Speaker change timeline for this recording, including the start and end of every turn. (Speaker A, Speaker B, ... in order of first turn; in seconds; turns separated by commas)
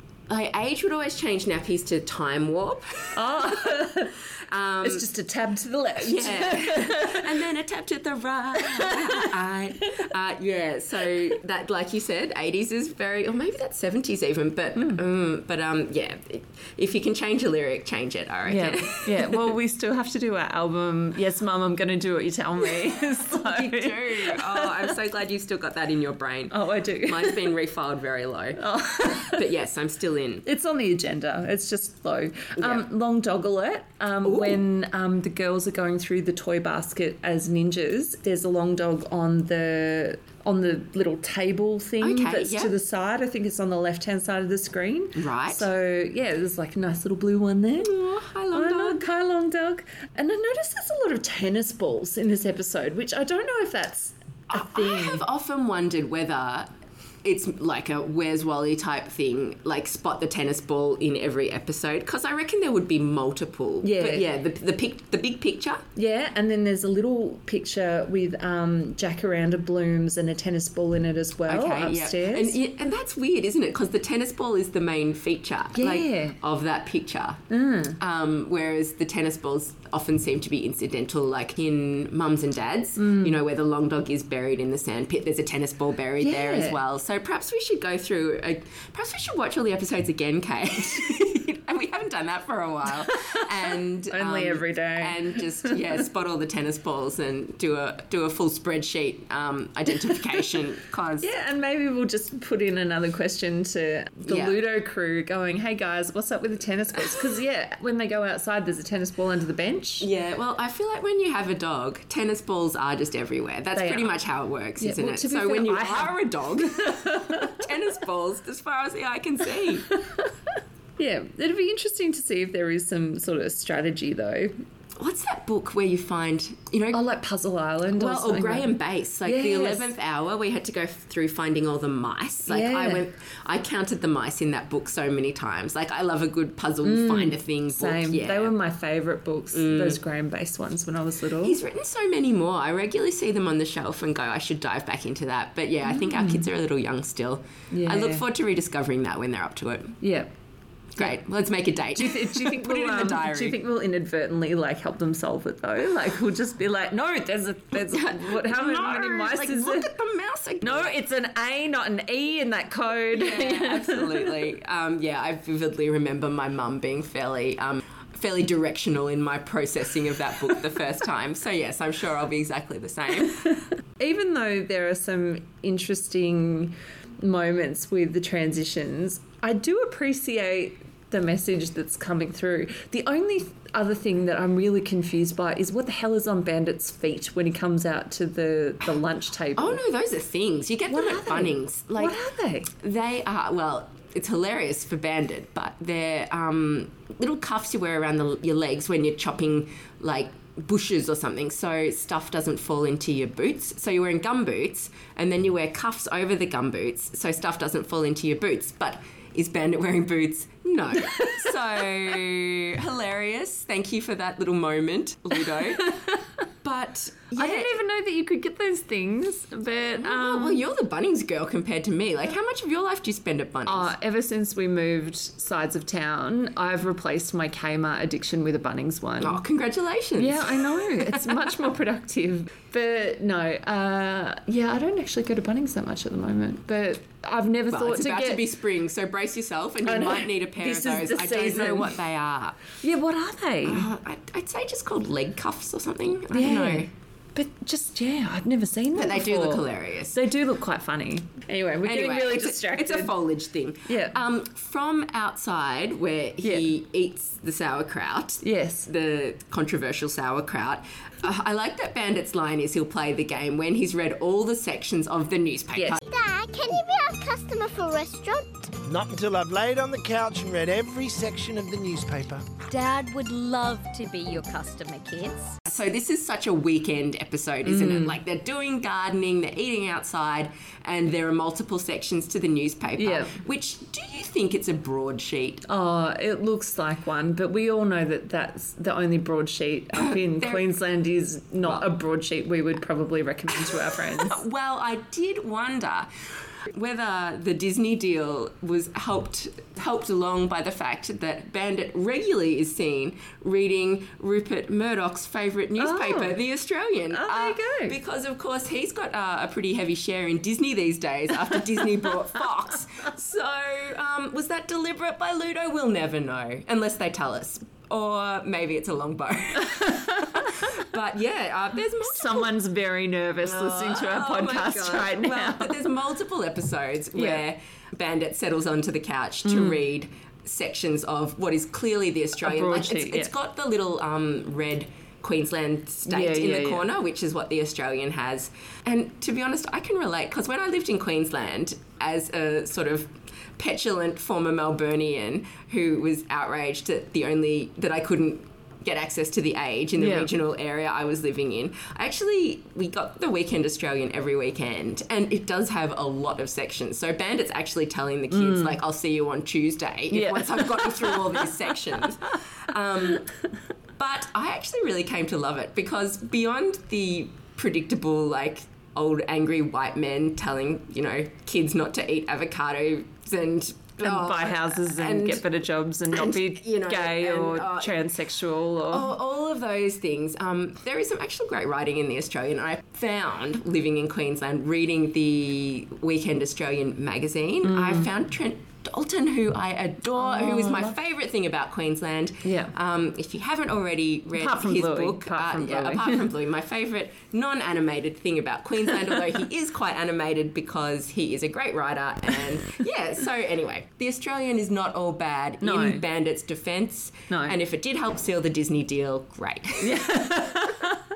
Speaker A: 0.3-3.8, Speaker B: 3.1-4.2, Speaker A: 4.5-5.0, Speaker B: 4.8-7.4, Speaker A: 6.0-19.5, Speaker B: 8.6-9.3, Speaker B: 18.5-24.9, Speaker A: 23.1-28.6, Speaker B: 26.5-27.4, Speaker B: 28.6-29.4, Speaker A: 29.2-30.4, Speaker B: 30.4-47.9, Speaker A: 32.6-32.8, Speaker A: 34.2-34.6, Speaker A: 42.0-42.7, Speaker A: 45.1-45.6, Speaker A: 47.8-49.0, Speaker B: 48.5-55.2, Speaker A: 54.5-56.7, Speaker A: 57.2-65.8, Speaker B: 63.8-64.2, Speaker B: 66.0-72.6, Speaker A: 71.5-77.4, Speaker B: 75.8-76.4, Speaker B: 77.5-78.0, Speaker A: 78.0-101.3, Speaker B: 83.0-83.3, Speaker B: 86.2-86.8, Speaker B: 93.1-93.4, Speaker B: 94.1-95.8, Speaker B: 101.2-110.1, Speaker A: 104.3-104.6, Speaker A: 110.0-119.9, Speaker B: 113.7-114.1, Speaker B: 114.8-117.7, Speaker B: 119.9-120.3, Speaker B: 121.0-124.5, Speaker A: 125.0-127.0, Speaker B: 126.9-128.7, Speaker A: 128.0-138.5, Speaker B: 129.2-129.9, Speaker B: 132.5-133.0, Speaker B: 136.8-141.6, Speaker A: 139.5-140.0, Speaker A: 141.4-150.0, Speaker B: 145.8-146.5, Speaker B: 147.7-148.2, Speaker B: 150.0-150.3, Speaker A: 150.9-153.6, Speaker B: 151.9-159.9, Speaker A: 157.8-160.9, Speaker B: 160.6-164.3, Speaker A: 163.1-173.4, Speaker B: 174.0-189.8, Speaker A: 189.6-192.2, Speaker B: 190.9-192.7, Speaker A: 192.7-216.1, Speaker B: 211.2-211.5, Speaker A: 216.6-217.7, Speaker B: 217.3-220.6, Speaker A: 220.0-223.9, Speaker B: 223.7-229.4, Speaker A: 229.2-231.5, Speaker B: 230.2-238.4, Speaker A: 237.7-242.6, Speaker B: 239.8-242.0, Speaker B: 242.8-243.9, Speaker A: 243.6-246.9, Speaker B: 246.3-253.1, Speaker A: 248.9-250.2, Speaker A: 251.8-266.0, Speaker B: 253.8-254.1, Speaker B: 258.4-258.9, Speaker B: 265.7-266.0, Speaker C: 266.0-268.7, Speaker D: 268.8-272.4, Speaker E: 272.6-275.6, Speaker A: 275.7-285.6, Speaker B: 277.6-278.2, Speaker B: 283.0-283.4, Speaker B: 285.7-294.4, Speaker A: 290.0-290.6, Speaker A: 293.7-296.1, Speaker A: 296.7-322.5, Speaker B: 305.8-306.4, Speaker B: 307.1-307.9, Speaker B: 319.7-320.7, Speaker B: 322.0-325.8, Speaker A: 323.4-363.3, Speaker B: 327.1-327.4, Speaker B: 329.4-329.8, Speaker B: 332.4-333.3, Speaker B: 336.1-336.9, Speaker B: 350.0-350.3, Speaker B: 358.3-358.8, Speaker B: 360.1-361.8, Speaker A: 364.0-375.4, Speaker B: 374.0-379.1, Speaker A: 376.1-377.9, Speaker A: 378.9-410.1, Speaker B: 387.6-388.1, Speaker B: 390.2-390.9, Speaker B: 392.4-392.7, Speaker B: 394.4-396.3, Speaker B: 405.6-406.0, Speaker B: 407.3-407.6, Speaker B: 409.8-411.0